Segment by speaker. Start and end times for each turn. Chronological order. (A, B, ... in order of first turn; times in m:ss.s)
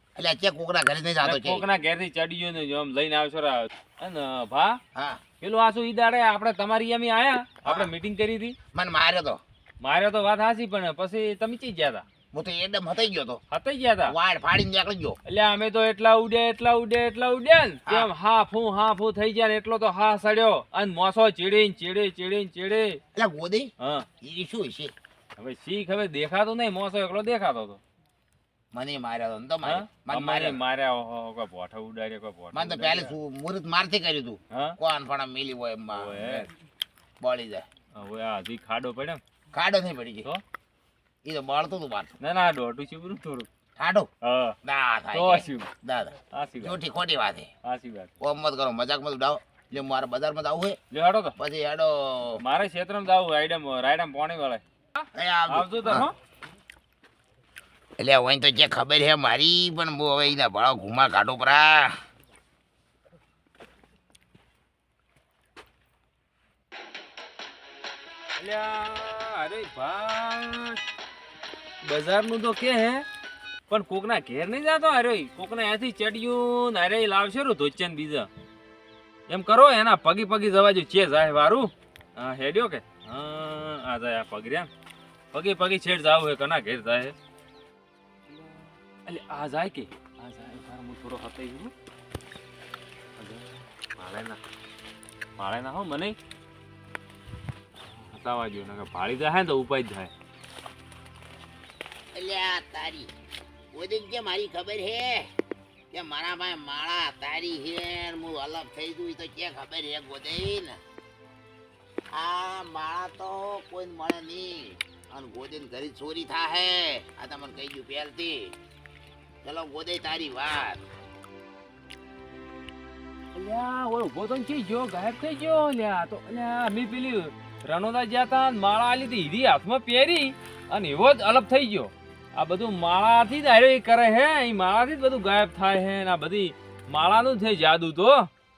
0:00.2-0:01.6 A
0:01.2-0:04.8 B
0:04.9-0:05.2 A
0:05.4-0:08.5 B
0:07.6-0:07.9 A
0:08.7-0:09.4 A
0:09.8-0:12.0 B
0:12.3-0:13.4 A
0:13.5-0:14.1 B
0:14.0-0:15.2 A
0:15.3-0:23.0 B
0:23.1-0:24.9 A
0:23.8-0:24.1 B
0:25.4-0:27.8 B
0:28.7-0:30.6 A
0:29.6-0:33.1 B
0:32.5-0:36.5 A
0:35.9-0:36.5 B
0:37.2-0:37.6 A
0:37.9-0:39.2 B
0:39.5-0:40.3 A
0:41.2-0:42.1 A
0:42.2-0:43.5 B
0:43.8-0:44.1 A
0:44.2-0:44.6 B
0:44.6-0:47.5 A
0:45.1-0:45.7 B
0:46.3-0:46.8 B
0:47.6-0:48.1 B
0:48.2-0:50.8 A
0:50.9-0:51.4 B
0:51.4-0:52.4 A
0:52.4-0:56.1 B
0:55.1-0:56.1 A
0:58.0-1:01.9 A
1:08.4-1:10.8 B
1:11.8-1:13.0 B
1:13.7-1:18.3 B
1:19.3-1:24.7 B
1:25.3-1:27.1 B
1:28.3-1:31.7 B
1:33.2-1:34.4 B
1:35.4-1:36.2 B
1:37.8-1:40.1 B
1:42.1-1:43.1 A
1:43.7-1:45.3 A
1:45.9-1:50.8 A
1:52.1-1:58.5 A
1:59.4-2:00.8 A
2:03.3-2:18.3 B